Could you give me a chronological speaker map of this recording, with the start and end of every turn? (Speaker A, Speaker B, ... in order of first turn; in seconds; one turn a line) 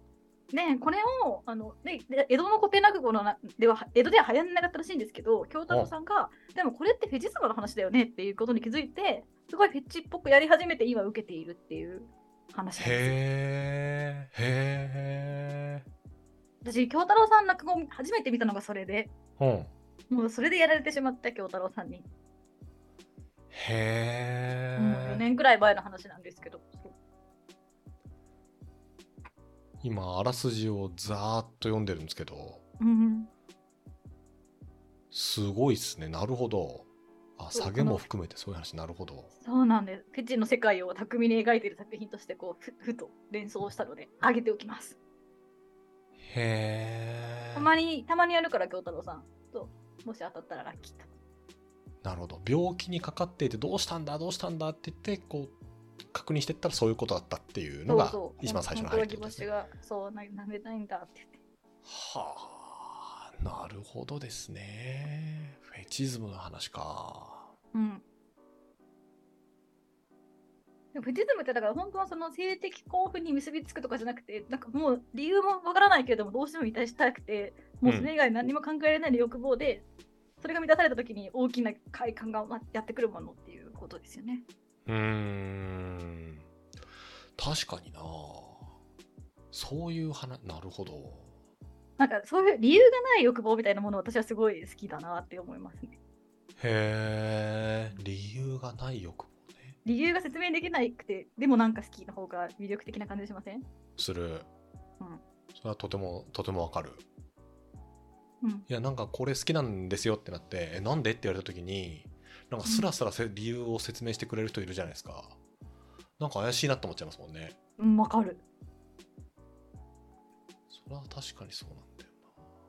Speaker A: 0.5-13.2
Speaker B: 12.8-15.9
Speaker A: 16.6-19.1
Speaker B: 19.4-19.7
Speaker A: 20.1-22.1
Speaker B: 23.5-25.2
Speaker A: 24.8-26.9
Speaker B: 29.8-32.6
Speaker A: 32.8-33.3
Speaker B: 35.1-39.3
Speaker A: 37.5-38.1
Speaker A: 39.4-45.0
Speaker B: 46.2-47.7
Speaker A: 47.5-51.1
Speaker B: 52.0-55.5
Speaker B: 56.1-59.5
Speaker A: 57.9-61.4
Speaker B: 61.9-67.5
Speaker A: 67.7-68.0
Speaker A: 70.9-79.8
Speaker B: 77.8-78.1
Speaker A: 80.4-84.5
Speaker B: 84.9-86.5
Speaker B: 87.4-88.7
Speaker B: 89.5-91.3
Speaker A: 92.0-96.0
Speaker B: 96.6-99.8
Speaker A: 99.8-103.7
Speaker B: 104.0-104.5
Speaker B: 105.5-107.0
Speaker B: 108.7-115.4
Speaker A: 112.7-112.9
Speaker B: 116.2-117.6
Speaker A: 117.8-118.4
Speaker B: 120.7-122.2